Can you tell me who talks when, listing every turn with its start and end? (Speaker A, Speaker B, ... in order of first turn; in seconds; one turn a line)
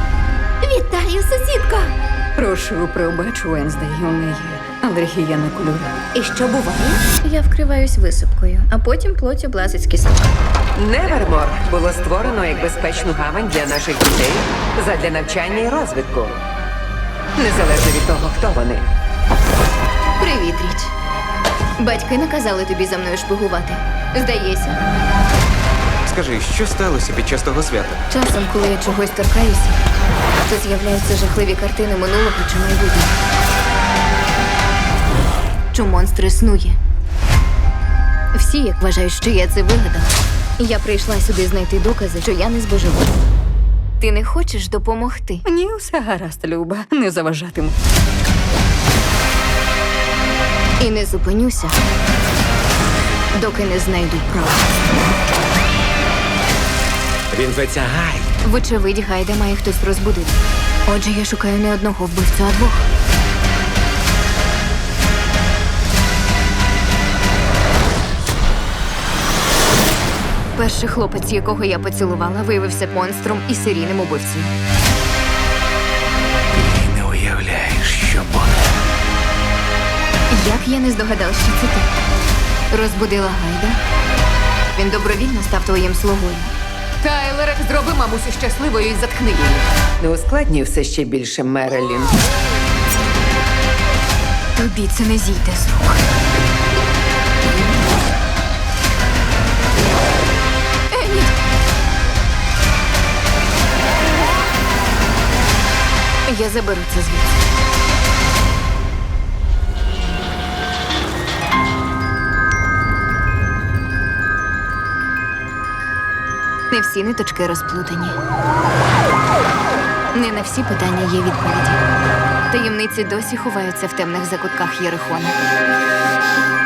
Speaker A: 0.7-1.9
Speaker B: 2.4-5.9
Speaker A: 6.1-10.3
Speaker C: 10.8-16.4
Speaker C: 17.4-18.9
Speaker A: 20.2-20.9
Speaker A: 21.8-24.8
Speaker D: 26.1-28.0
Speaker A: 28.1-29.8
Speaker A: 30.4-33.2
Speaker A: 35.7-36.8
Speaker A: 38.3-43.1
Speaker A: 44.0-45.4
Speaker B: 45.5-47.8
Speaker A: 50.8-51.8
Speaker A: 53.4-54.8
Speaker E: 57.3-58.3
Speaker A: 58.4-62.8
Speaker A: 70.5-74.5
Speaker E: 76.5-78.6
Speaker A: 80.3-81.9
Speaker A: 82.7-83.8
Speaker A: 84.8-86.5
Speaker C: 87.0-92.2
Speaker A: 94.5-96.0
Speaker A: 100.9-101.3
Speaker A: 106.3-107.4
Speaker A: 116.7-118.2
Speaker A: 120.1-121.8
Speaker A: 122.5-125.4